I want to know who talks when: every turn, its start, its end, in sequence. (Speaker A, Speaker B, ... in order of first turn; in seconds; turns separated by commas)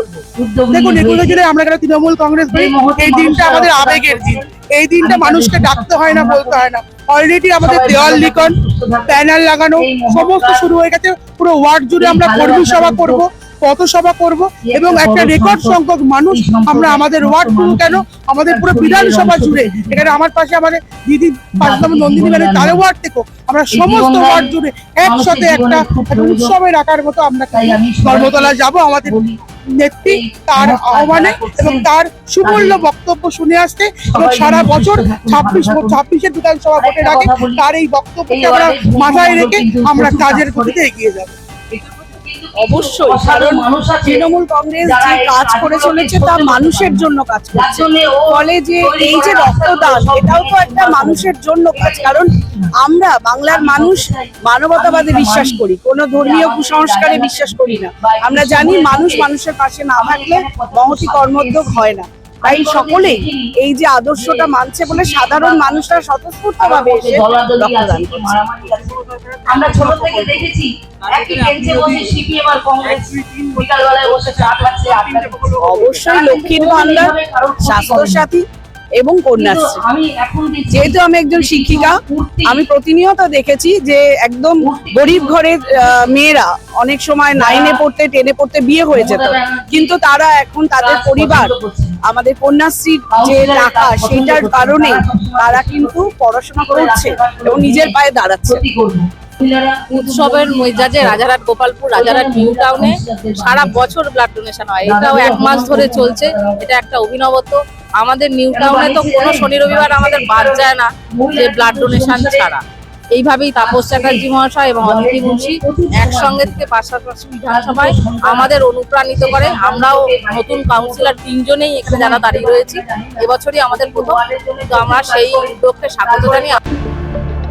Speaker A: 0.3-1.4, Speaker B: 0.7-8.6, Speaker A: 2.5-4.4, Speaker A: 5.0-6.7, Speaker A: 7.6-9.2, Speaker B: 9.1-29.1, Speaker A: 9.8-10.7, Speaker A: 12.0-13.2, Speaker A: 14.6-15.8, Speaker A: 16.3-20.2, Speaker A: 21.6-22.8, Speaker A: 23.7-24.5, Speaker A: 25.0-26.5, Speaker A: 27.5-29.4, Speaker B: 29.8-41.3, Speaker A: 30.1-31.9, Speaker A: 32.4-32.9, Speaker A: 34.0-36.0, Speaker A: 36.8-37.6, Speaker A: 38.3-40.8, Speaker A: 41.7-44.3, Speaker C: 42.6-52.3, Speaker A: 44.8-52.7, Speaker C: 52.8-68.3, Speaker A: 53.5-59.3, Speaker A: 59.9-61.9, Speaker A: 62.4-63.5, Speaker A: 64.1-66.0, Speaker A: 66.6-78.3, Speaker C: 75.4-78.4, Speaker C: 79.0-79.8, Speaker A: 79.4-82.7, Speaker C: 80.7-91.5, Speaker A: 84.6-86.2, Speaker A: 87.3-87.8, Speaker A: 88.9-90.0, Speaker A: 90.8-92.0, Speaker C: 92.1-98.6, Speaker A: 93.1-97.9, Speaker A: 98.5-101.2, Speaker D: 99.9-112.6, Speaker A: 101.9-103.9, Speaker A: 104.8-106.6, Speaker A: 108.5-112.5, Speaker D: 113.2-126.6, Speaker A: 113.6-114.3, Speaker A: 114.8-116.7, Speaker A: 117.5-121.2, Speaker A: 121.8-126.6